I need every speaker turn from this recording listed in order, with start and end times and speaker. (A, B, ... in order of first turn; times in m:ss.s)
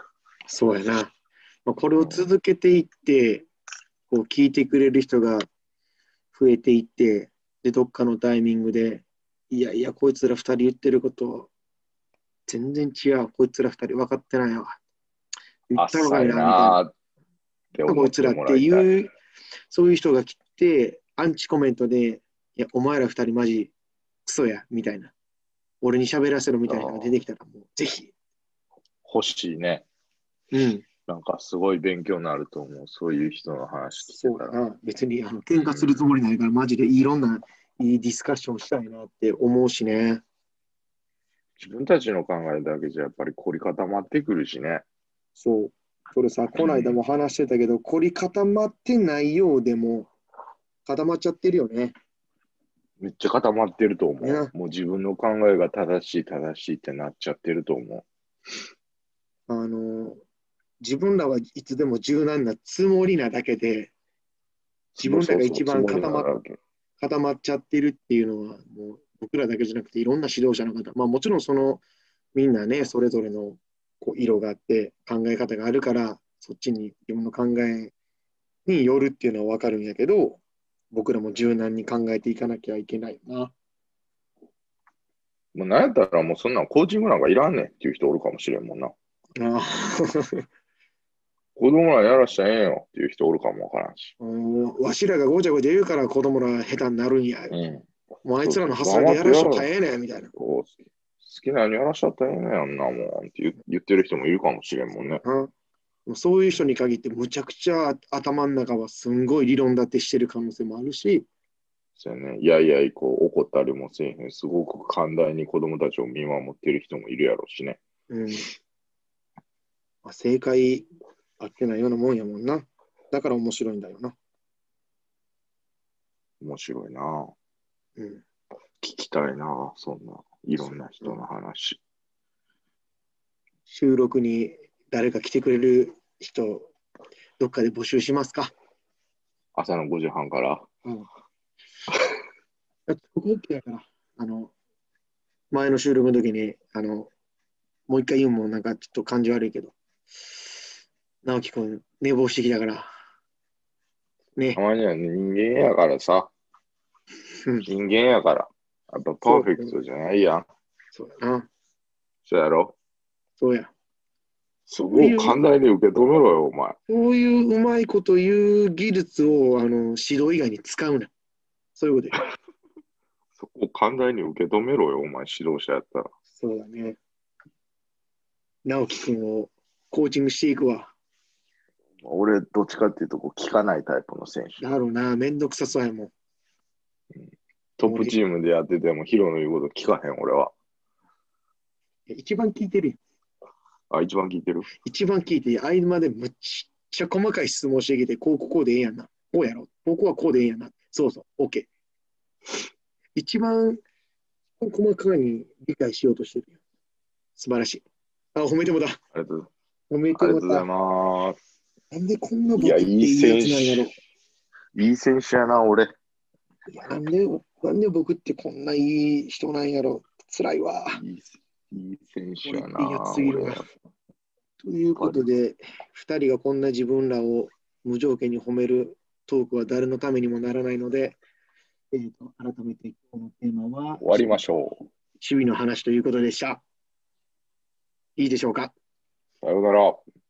0:00.5-0:01.1 A
0:01.6-0:03.5 A
0:02.0-0:02.3 B
0:04.1-0:05.5 A
0:06.3-0:11.5 A
0:12.5-0:14.8 A
0:15.7-0:16.8 A
0:15.8-0:16.9 B
0:17.7-0:18.8 B
0:17.9-0:19.1 A
0:19.7-0:23.7 A
0:24.2-0:25.1 A
0:25.8-0:28.1 A
0:26.7-0:27.1 B
0:29.0-0:29.8 B
0:30.5-0:30.8 A
0:31.1-0:34.6 B
0:34.1-0:40.2 A
0:35.6-0:36.0 B
0:41.6-0:44.8 B
0:45.4-0:50.1 A
0:46.6-0:47.0 B
0:50.8-0:52.0 A
0:53.0-0:58.0 B
0:54.2-0:54.5 A
0:59.5-1:00.2 A
1:00.8-1:03.9 A
1:05.0-1:06.6 B
1:05.0-1:06.3 A
1:07.0-1:11.8 A
1:12.3-1:17.9 A
1:18.6-1:20.4 A
1:20.9-1:23.5 A
1:25.5-1:28.9 B
1:29.4-1:30.4 A
1:31.6-1:34.1 B
1:34.2-1:37.5 A
1:37.5-1:37.8 B
1:38.2-1:40.3 A
1:38.4-1:39.7 B
1:40.4-1:45.2 B
1:44.9-1:45.5 A
1:46.1-1:51.3 A
1:52.0-1:57.8 B
1:58.1-1:58.4 A
2:00.0-2:00.9 A
2:01.4-2:04.1 A
2:06.4-2:07.3 B
2:08.0-2:08.2 A
2:08.8-2:11.8 B
2:10.6-2:11.2 A
2:13.7-2:16.7 A
2:17.4-2:18.5 A
2:19.5-2:20.6 B
2:22.9-2:24.5 A
2:25.5-2:27.1 A
2:27.9-2:29.7 A
2:31.2-2:32.9 A
2:34.5-2:36.3 B
2:37.6-2:40.5 B
2:39.2-2:39.7 A
2:40.9-2:41.5 A
2:42.2-2:42.8 B
2:43.4-2:43.7 A
2:44.7-2:46.8 B
2:44.9-2:45.4 A
2:46.9-2:51.1 A
2:51.8-2:52.2 A
2:53.4-2:56.1 B
2:56.3-2:57.0 A
2:58.6-3:00.9 A
3:02.0-3:04.6 B
3:04.6-3:06.1 A
3:07.1-3:10.5 B
3:07.8-3:08.2 A
3:12.1-3:13.0 A
3:13.9-3:14.7 B
3:14.7-3:21.7 A
3:23.2-3:23.8 A
3:24.6-3:26.6 A
3:27.4-3:27.8 A
3:28.3-3:29.0 A
3:29.1-3:29.5 B
3:29.9-3:30.7 A
3:30.1-3:31.4 B
3:31.9-3:33.9 A
3:32.6-3:33.9 B
3:34.7-3:35.9 B
3:36.7-3:41.0 A
3:40.9-3:43.6 B
3:42.4-3:43.7 A
3:44.6-3:51.2 A
3:45.0-3:45.2 B
3:51.9-3:54.4 A
3:54.0-3:54.8 B
3:55.2-3:56.6 A
3:58.2-3:58.7 A
3:59.4-4:00.0 B